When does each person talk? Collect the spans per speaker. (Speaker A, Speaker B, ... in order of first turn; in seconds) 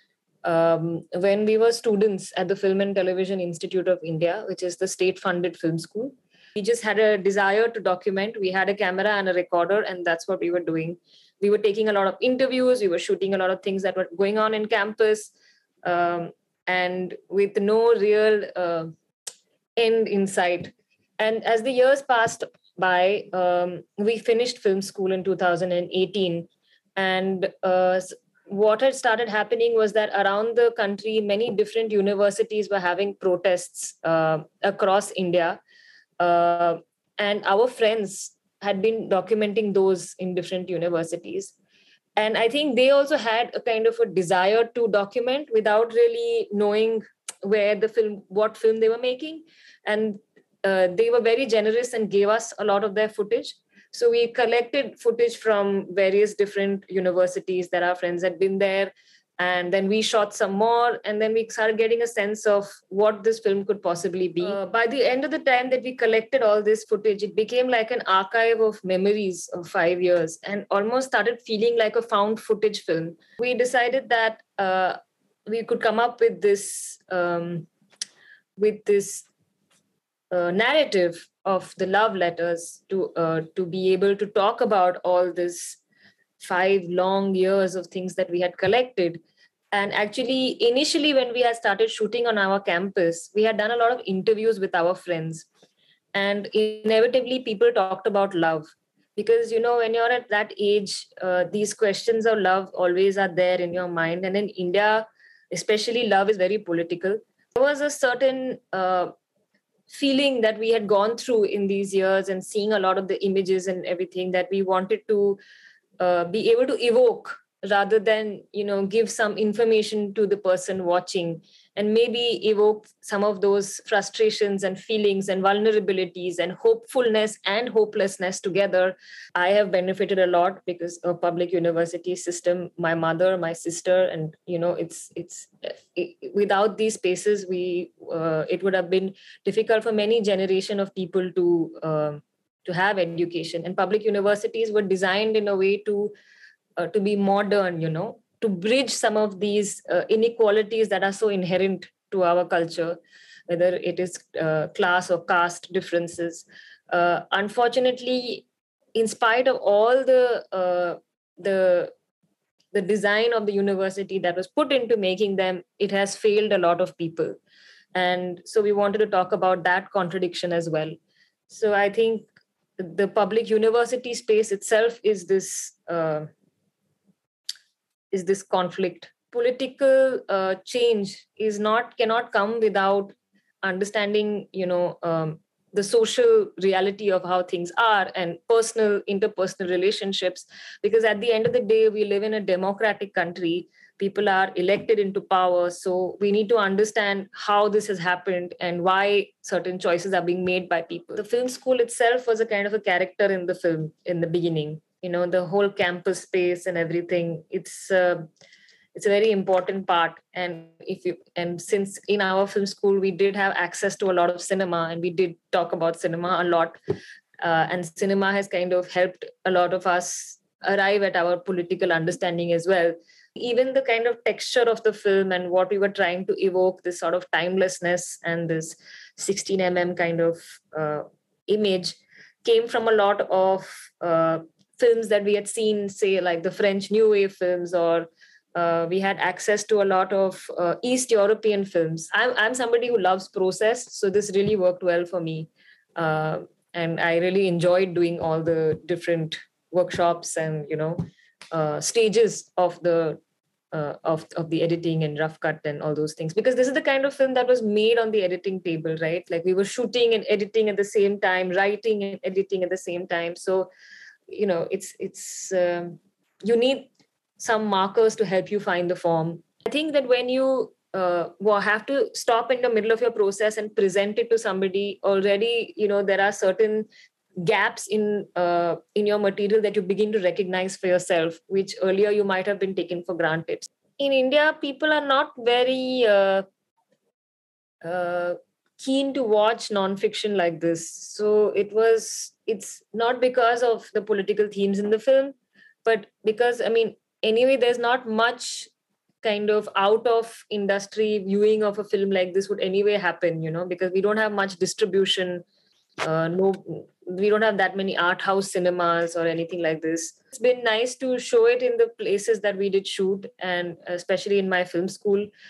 Speaker A: 0.4-15.3, 15.8-18.9, 19.8-35.6, 36.2-41.5, 42.2-77.7, 78.6-79.3, 80.3-85.8, 86.4-89.2, 89.7-95.5, 96.1-109.1, 109.9-115.4, 116.0-146.1, 146.8-161.9, 162.7-167.4, 167.9-170.9, 171.5-172.3, 172.8-176.3, 178.1-208.2, 208.9-216.8, 217.4-253.2, 253.7-263.7, 264.3-276.9, 277.4-286.4, 287.8-298.7, 299.2-305.4, 306.0-315.3